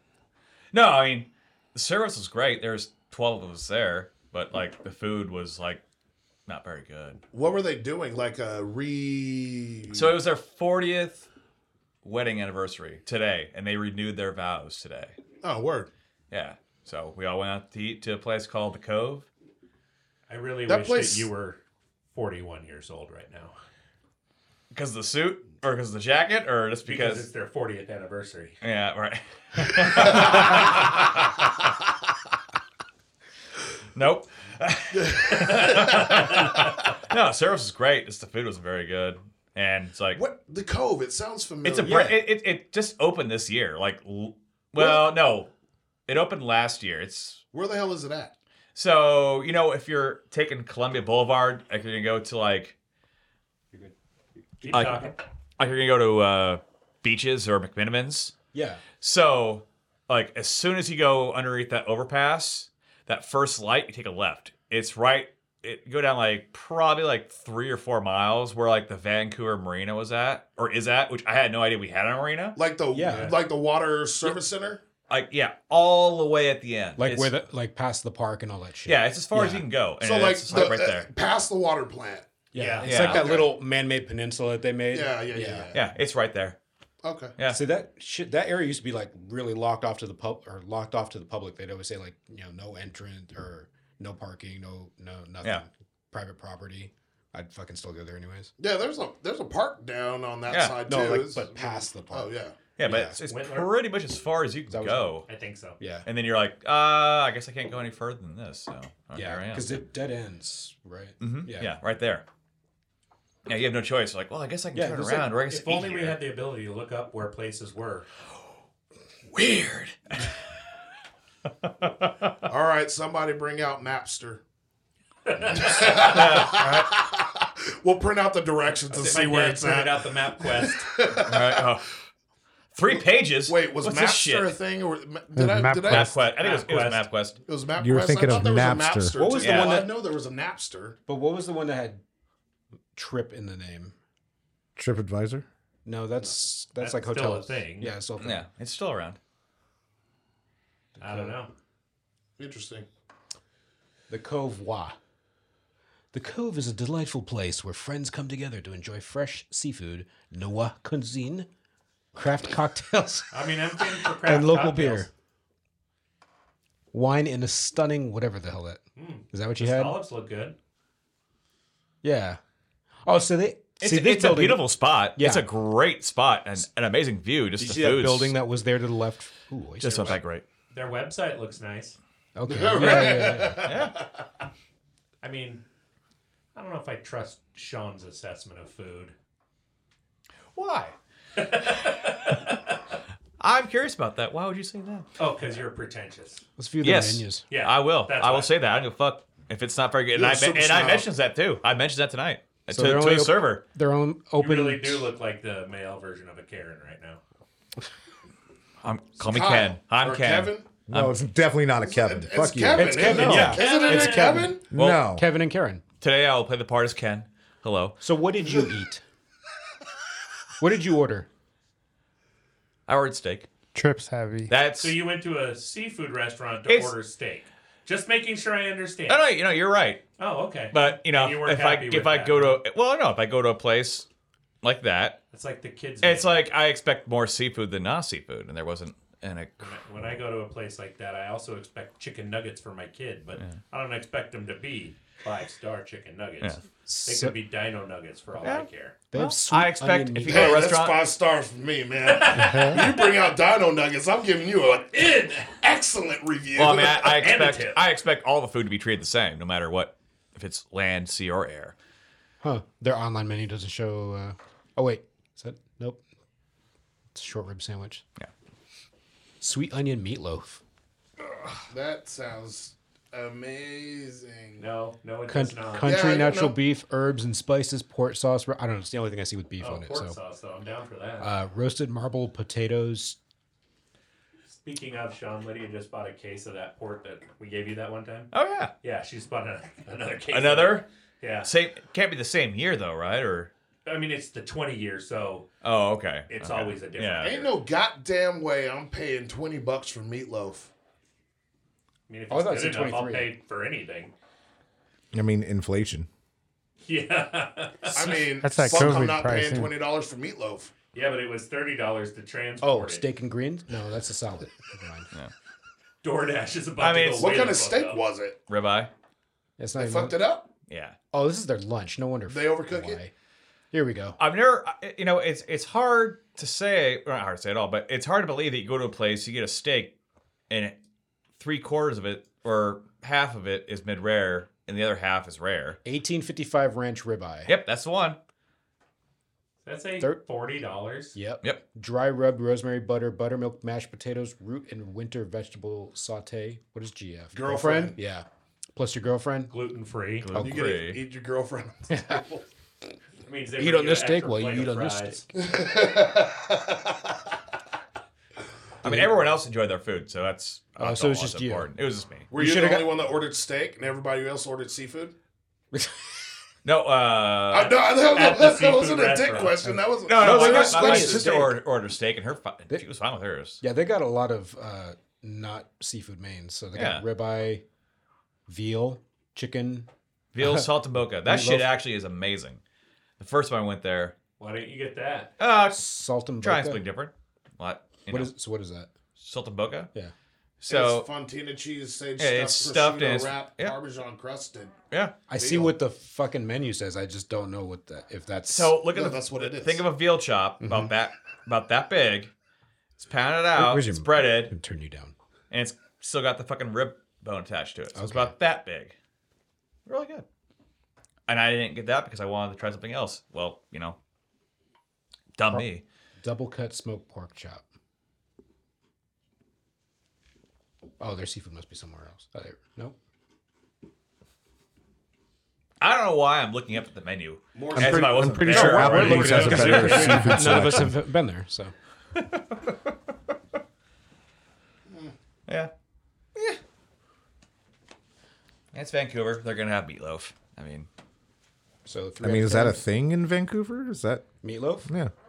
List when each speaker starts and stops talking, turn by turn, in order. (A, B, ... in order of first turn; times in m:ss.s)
0:00.7-0:05.8 A
0:06.5-0:07.2 A
0:07.3-0:10.2 B
0:09.9-0:11.3 A
0:12.0-0:15.2 A
0:15.4-0:15.9 B
0:16.3-0:19.3 A
0:20.3-0:21.6 C
0:20.7-0:21.3 B
0:22.1-0:23.6 C
0:24.7-0:27.3 A
0:26.8-0:28.6 C
0:28.6-0:31.0 A
0:29.9-0:30.8 C
0:34.0-0:40.2 A
0:34.9-0:36.1 B
0:35.4-0:36.7 C
0:40.1-0:42.2 B
0:41.6-0:45.5 A
0:44.8-0:45.1 B
0:46.1-0:47.4 A
0:47.5-0:48.3 B
0:48.8-0:52.8 A
0:54.6-0:55.2 C
0:54.7-0:58.3 A
0:58.5-0:58.9 D
0:59.0-1:12.6 A
1:12.6-1:14.8 B
1:12.9-1:13.3 D
1:13.1-1:13.4 C
1:15.1-1:17.3 A
1:17.0-1:19.7 D
1:18.9-1:21.1 A
1:20.0-1:23.5 B
1:22.5-1:25.7 D
1:22.5-1:23.1 C
1:22.8-1:23.4 A
1:24.9-1:25.9 B
1:25.7-1:26.6 A
1:27.0-1:27.4 B
1:27.4-1:38.5 D
1:38.6-1:42.6 B
1:40.5-1:40.8 A
1:40.9-1:43.2 D
1:42.8-1:45.3 A
1:43.3-1:43.7 C
1:44.7-1:45.2 D
1:45.3-1:45.8 C
1:45.8-1:46.1 D
1:46.0-1:49.7 A
1:49.1-1:51.8 D
1:51.2-1:52.2 A
1:53.5-1:56.2 A
1:54.7-1:55.3 D
1:55.5-1:58.1 C
1:59.3-2:00.3 A
2:01.6-2:02.3 A
2:02.5-2:04.4 B
2:05.3-2:06.2 C
2:05.5-2:11.7 B
2:05.8-2:06.9 A
2:08.9-2:10.9 C
2:11.2-2:11.9 A
2:12.7-2:14.5 A
2:12.9-2:16.2 B
2:15.4-2:16.2 E
2:15.9-2:17.4 A
2:16.4-2:17.1 C
2:17.4-2:21.0 B
2:17.8-2:19.2 F
2:19.2-2:20.0 D
2:19.4-2:19.9 A
2:21.1-2:22.0 D
2:23.0-2:24.0 D
2:24.8-2:25.5 F
2:25.8-2:28.5 D
2:26.8-2:28.0 C
2:28.2-2:29.2 A
2:31.0-2:31.4 D
2:31.0-2:31.5 C
2:32.4-2:32.9 B
2:34.1-2:35.0 D
2:36.1-2:41.5 D
2:42.2-2:45.1 D
2:43.3-2:45.1 C
2:46.9-2:50.0 D
2:49.0-2:50.6 C
2:52.0-2:52.4 D
2:53.1-2:55.5 D
2:53.8-2:58.4 A
2:57.6-3:00.2 D
2:59.8-3:00.5 A
3:00.7-3:02.0 C
3:02.4-3:03.6 D
3:02.5-3:04.1 B
3:02.8-3:04.0 A
3:05.2-3:05.6 C
3:06.6-3:09.1 C
3:10.5-3:11.0 A
3:11.4-3:12.8 C
3:11.8-3:12.5 A
3:13.4-3:15.1 A
3:15.2-3:16.4 C
3:16.6-3:17.5 D
3:16.8-3:23.6 A
3:17.4-3:18.5 C
3:20.1-3:21.1 B
3:22.7-3:25.1 D
3:24.4-3:27.2 C
3:28.8-3:31.2 A
3:29.2-3:30.8 B
3:30.9-3:33.2 F
3:31.8-3:34.7 B
3:32.8-3:35.8 D
3:33.0-3:34.5 C
3:33.1-3:33.6 A
3:34.7-3:35.2 F
3:34.7-3:35.1 A
3:36.0-3:38.0 A
3:38.0-3:39.0 D
3:40.6-3:41.3 D
3:42.9-3:43.5 A
3:43.7-3:44.5 E
3:44.5-3:45.0 A
3:44.8-3:49.2 C
3:46.7-3:47.0 A
3:49.1-3:50.0 A
3:50.2-3:52.6 C
3:50.7-3:54.1 A
3:54.6-3:55.2 A
3:55.3-3:56.4 C
3:56.0-4:00.2 A
3:59.6-4:09.1 C
4:03.4-4:03.6 A
4:06.9-4:07.4 D
4:08.4-4:11.0 A
4:09.1-4:10.6 D
4:10.3-4:17.1 B
4:12.0-4:13.3 C
4:12.3-4:12.8 E
4:14.6-4:15.5 C
4:16.5-4:21.8 A
4:17.1-4:17.8 C
4:22.4-4:26.0 D
4:27.1-4:28.0 D
4:29.4-4:30.6 D
4:31.6-4:34.6 B
4:34.6-4:36.2 C
4:35.3-4:40.2 D
4:35.8-4:36.6 B
4:39.6-4:41.3 C
4:41.2-4:43.2 D
4:44.5-4:48.3 C
4:48.3-4:48.7 A
4:48.8-4:51.5 C
4:50.3-4:50.9 A
4:51.4-4:53.5 A
4:53.9-4:55.5 C
4:55.6-4:57.4 A
4:56.3-4:57.5 C
4:57.2-5:00.7 B
5:02.1-5:04.1 C
5:02.3-5:03.3 D
5:05.1-5:06.1 F
5:06.8-5:09.1 C
5:07.9-5:10.7 B
5:08.4-5:09.7 E
5:10.9-5:13.1 C
5:12.6-5:15.1 D
5:16.0-5:18.0 C
5:16.8-5:17.5 A
5:17.2-5:18.4 B
5:18.5-5:18.9 A
5:19.6-5:20.2 D
5:19.8-5:20.5 B
5:20.7-5:21.0 A
5:21.1-5:23.1 D
5:22.3-5:23.0 B
5:23.7-5:24.2 D
5:24.2-5:29.9 A
5:30.5-5:30.8 A
5:31.4-5:35.8 A
5:35.8-5:37.5 D
5:37.5-5:38.2 A
5:39.6-5:41.2 C
5:41.2-5:49.5 D
5:47.3-5:48.0 B
5:49.5-5:50.3 C
5:50.2-5:51.0 A
5:50.4-5:52.4 B
5:51.9-5:52.2 D
5:53.2-5:55.2 C
5:53.6-5:55.2 D
5:55.4-5:57.0 B
5:58.8-5:59.2 D
5:58.8-6:02.3 A
6:00.8-6:01.7 D
6:02.3-6:02.9 D
6:02.3-6:05.1 B
6:05.7-6:06.1 D
6:06.6-6:07.8 A
6:07.5-6:11.5 B
6:08.0-6:09.6 C
6:09.6-6:11.6 D
6:10.0-6:13.6 A
6:13.6-6:17.6 D
6:16.7-6:17.0 A
6:18.5-6:19.9 D
6:20.3-6:22.6 A
6:20.4-6:21.7 D
6:23.2-6:24.2 A
6:24.4-6:25.3 C
6:25.4-6:25.8 A
6:25.7-6:26.8 D
6:26.4-6:28.3 A
6:28.1-6:28.9 D
6:29.2-6:29.9 A
6:30.6-6:31.1 A
6:30.7-6:34.8 B
6:32.2-6:33.8 A
6:34.9-6:35.2 A
6:35.3-6:38.8 D
6:35.4-6:35.7 B
6:38.5-6:42.3 A
6:38.9-6:39.9 B
6:40.6-6:40.9 D
6:43.0-6:44.5 A
6:43.5-6:45.1 D
6:45.5-6:49.0 A
6:48.0-6:48.3 D
6:49.9-6:50.2 A
6:51.3-6:54.0 A
6:55.4-6:55.8 A
6:56.2-6:57.6 D
7:01.0-7:03.0 D
7:05.8-7:10.0 A
7:07.6-7:08.5 B
7:07.8-7:11.0 F
7:08.4-7:10.5 E
7:08.4-7:11.7 D
7:08.9-7:10.5 C
7:12.2-7:12.8 A
7:18.7-7:20.9 A
7:21.8-7:22.8 D
7:22.2-7:24.3 F
7:24.4-7:24.9 D
7:24.9-7:25.1 F